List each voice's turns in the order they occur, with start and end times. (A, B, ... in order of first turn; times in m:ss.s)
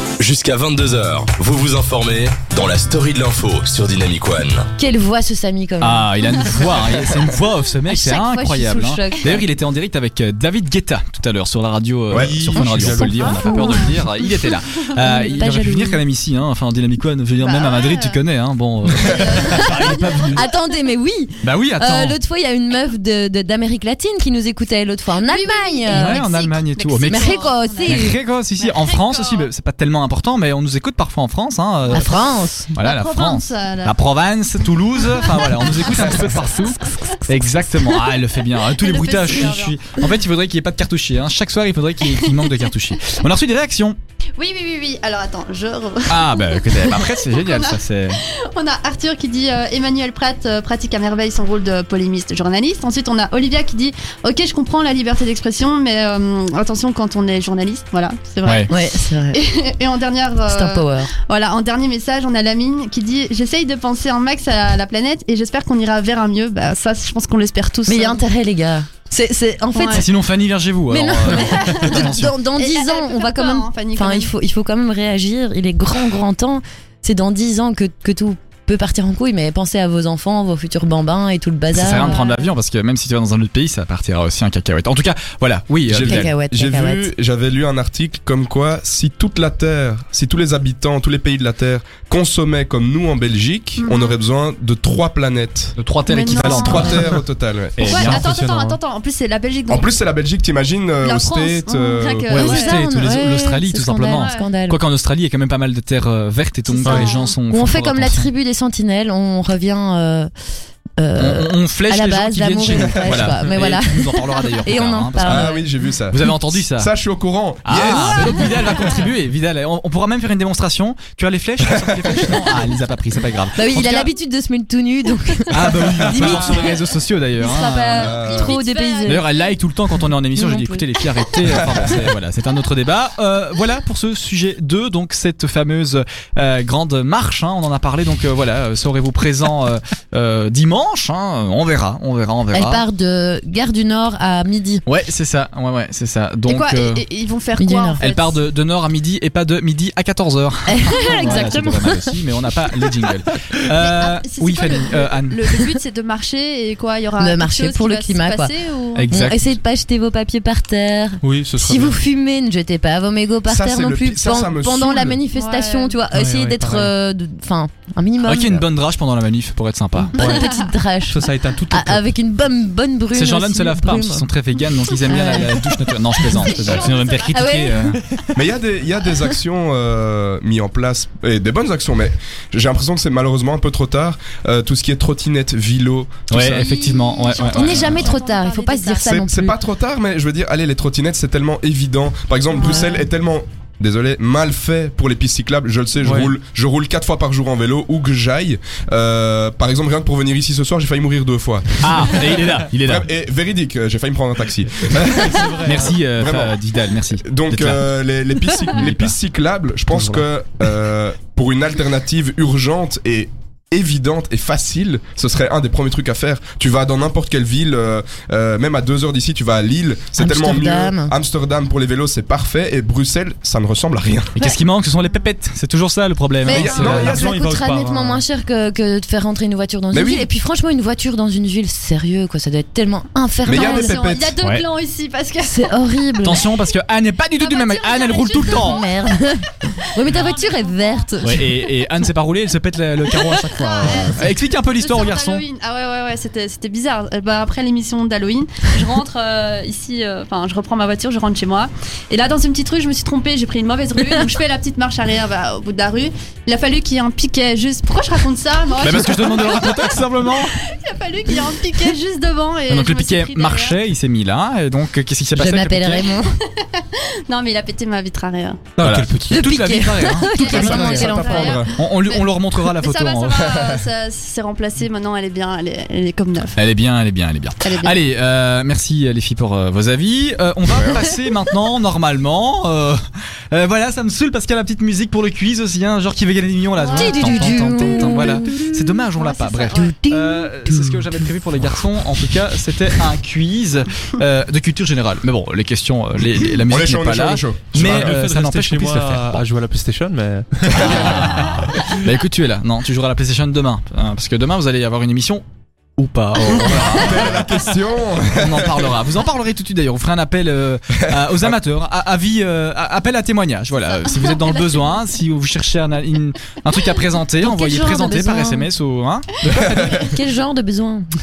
0:00.2-0:04.7 A
0:04.8-0:06.1 B
0:05.8-0:20.4 C
0:07.9-0:09.4 B
0:12.1-0:12.9 D
0:12.1-0:13.4 E
0:13.1-0:14.0 B
0:13.2-0:14.0 F
0:14.5-0:15.3 F
0:15.0-0:16.0 B
0:17.4-0:18.2 F
0:18.9-0:20.5 F
0:20.3-0:26.2 B
0:21.4-0:22.2 C
0:25.2-0:29.5 F
0:25.9-0:32.2 C
0:27.0-0:28.2 B
0:31.9-0:32.7 B
0:32.8-0:44.0 C
0:32.8-0:34.0 F
0:35.4-0:36.2 F
0:38.6-0:39.8 F
0:44.4-0:58.8 F
0:46.1-0:48.2 C
0:58.4-0:58.7 C
0:58.7-0:59.4 B
0:59.3-1:08.2 F
1:00.5-1:01.1 B
1:07.8-1:10.0 B
1:09.7-1:10.0 F
1:09.9-1:12.3 C
1:10.9-1:22.2 B
1:11.4-1:14.3 F
1:21.7-1:26.3 C
1:21.9-1:22.5 F
1:25.9-1:35.8 D
1:26.0-1:27.1 B
1:33.8-1:34.2 F
1:35.8-1:37.2 C
1:36.1-1:37.0 F
1:36.3-1:38.1 D
1:37.8-1:38.3 C
1:37.8-1:39.9 F
1:37.9-1:38.8 E
1:39.7-1:42.3 D
1:41.0-1:42.8 F
1:42.3-1:48.3 C
1:42.3-1:44.8 B
1:44.1-1:44.5 F
1:46.8-1:47.4 F
1:46.8-1:47.1 E
1:47.5-1:50.3 B
1:51.0-1:55.7 B
1:51.2-1:55.5 C
1:55.2-1:59.0 D
1:56.1-1:56.9 C
1:57.6-2:04.1 C
2:01.7-2:02.3 D
2:03.5-2:06.8 B
2:05.5-2:08.2 C
2:07.4-2:09.3 B
2:07.4-2:09.3 F
2:07.9-2:08.6 D
2:09.0-2:22.8 C
2:10.3-2:10.9 B
2:22.5-2:24.8 B
2:24.8-2:27.0 C
2:26.5-2:28.4 F
2:27.6-2:28.0 B
2:28.0-2:35.5 C
2:30.7-2:32.2 B
2:31.0-2:31.5 F
2:33.8-2:39.1 F
2:37.2-2:38.5 B
2:38.9-2:39.6 C
2:39.1-2:48.6 B
2:41.2-2:42.0 E
2:43.5-2:45.2 D
2:45.3-2:46.0 F
2:46.1-2:46.9 E
2:48.2-2:50.2 C
2:50.2-2:54.3 B
2:50.2-2:50.5 E
2:50.2-2:50.7 F
2:51.1-2:52.1 E
2:53.1-2:58.0 C
2:55.0-2:58.0 B
2:56.2-2:57.5 F
2:58.3-3:06.6 D
3:06.3-3:08.1 C
3:06.3-3:06.6 E
3:06.4-3:09.2 F
3:07.5-3:09.6 B
3:07.6-3:08.0 D
3:09.0-3:26.6 D
3:12.5-3:13.0 B
3:16.0-3:16.3 E
3:21.8-3:23.1 C
3:24.9-3:26.0 E
3:25.6-3:27.8 C
3:27.2-3:44.3 D
3:28.7-3:29.1 C
3:29.9-3:30.2 E
3:40.2-3:41.1 B
3:44.3-3:47.0 C
3:46.4-3:47.3 D
3:46.4-3:54.0 B
3:46.5-3:47.0 F
3:46.6-3:48.2 E
3:49.9-3:50.3 D
3:53.4-3:54.4 D
3:53.4-3:55.7 F
3:55.4-3:56.4 B
3:56.2-3:58.8 C
3:57.4-3:58.9 F
3:58.4-4:01.5 B
4:00.0-4:01.5 F
4:01.2-4:05.4 C
4:03.2-4:23.8 F
4:03.8-4:04.2 B
4:18.8-4:20.6 C
4:22.7-4:26.1 C
4:25.3-4:26.4 B
4:26.5-4:28.7 F
4:28.8-4:29.6 E
4:28.8-4:33.5 C
4:29.3-4:31.6 B
4:30.1-4:36.6 F
4:30.4-4:31.7 D
4:33.5-4:33.8 D
4:36.6-4:59.4 C
4:37.6-4:38.0 F
4:40.7-4:41.1 D
4:46.8-4:47.7 F
4:46.9-4:49.0 B
4:49.2-4:49.9 F
4:49.7-4:51.2 B
4:56.6-4:58.1 D
4:57.7-5:01.5 E
5:00.7-5:05.4 C
5:00.8-5:01.6 D
5:06.0-5:07.5 C
5:06.4-5:09.0 D
5:08.3-5:20.0 C
5:11.1-5:11.5 D
5:13.9-5:14.9 F
5:17.4-5:18.7 B
5:19.5-5:20.1 D
5:19.6-5:21.0 B